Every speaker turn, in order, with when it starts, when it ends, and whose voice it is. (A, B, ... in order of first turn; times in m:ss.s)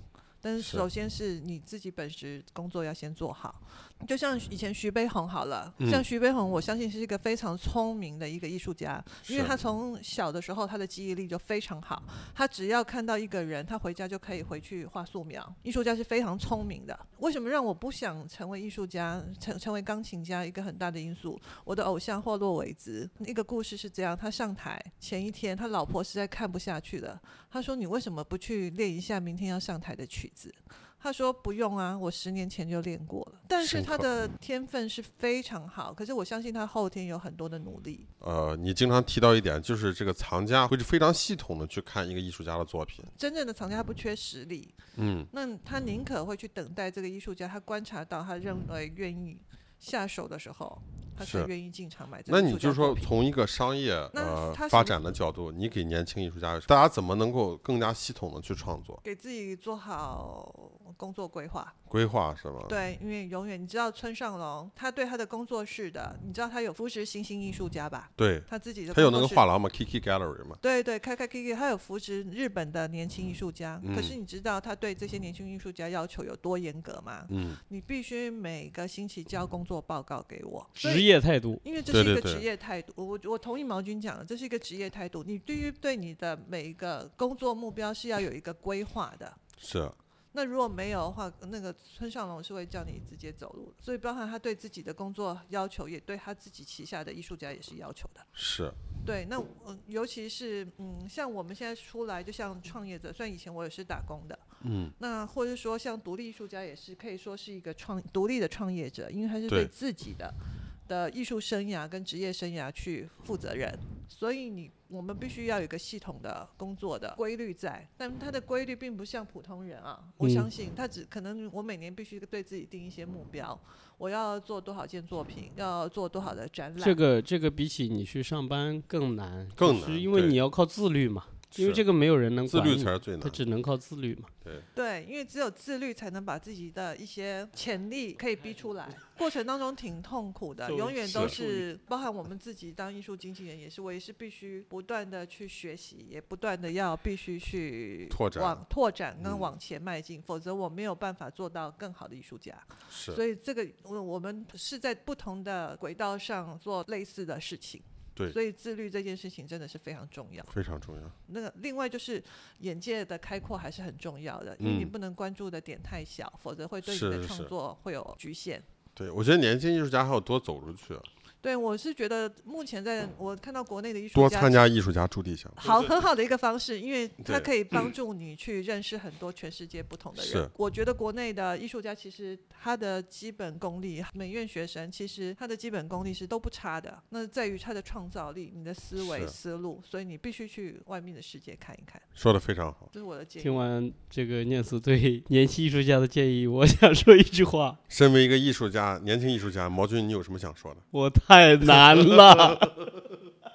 0:00.4-0:38.1 A
0:00.6-0:00.8 B
0:09.3-0:09.6 B
0:33.6-0:34.0 B
0:38.2-0:43.1 B
0:43.1-0:44.8 A
0:45.0-0:45.3 B
0:45.3-0:53.1 A
0:51.2-0:51.5 B
0:52.3-0:59.0 B
0:54.1-0:55.0 A
0:59.0-1:01.8 A
1:01.9-1:02.8 B
1:02.7-1:09.4 A
1:08.2-1:10.6 B
1:10.6-1:29.4 A
1:13.8-1:14.2 B
1:17.3-1:17.6 B
1:20.8-1:21.6 C
1:21.9-1:22.4 B
1:29.6-1:30.0 B
1:30.3-1:38.3 A
1:38.4-1:38.8 B
1:39.0-1:44.4 A
1:44.6-1:44.9 B
1:45.0-2:07.0 A
2:00.2-2:00.5 C
2:06.8-2:14.3 C
2:09.6-2:10.4 B
2:11.5-2:11.8 B
2:12.5-2:13.4 B
2:14.7-2:40.5 A
2:20.7-2:21.6 C
2:21.1-2:21.4 B
2:28.1-2:28.6 B
2:29.2-2:29.5 B
2:32.9-2:33.2 B
2:40.5-2:41.2 B
2:41.3-2:48.7 A
2:44.6-2:44.9 B
2:46.8-2:47.5 B
2:49.0-2:51.1 B
2:51.4-2:54.6 A
2:54.2-2:56.0 B
2:55.6-3:12.1 A
2:57.2-2:57.5 B
3:00.2-3:00.5 B
3:09.0-3:09.4 B
3:12.2-3:12.9 B
3:12.9-3:13.6 A
3:13.4-3:17.8 C
3:17.9-3:20.8 B
3:20.9-3:22.8 C
3:21.7-3:23.0 B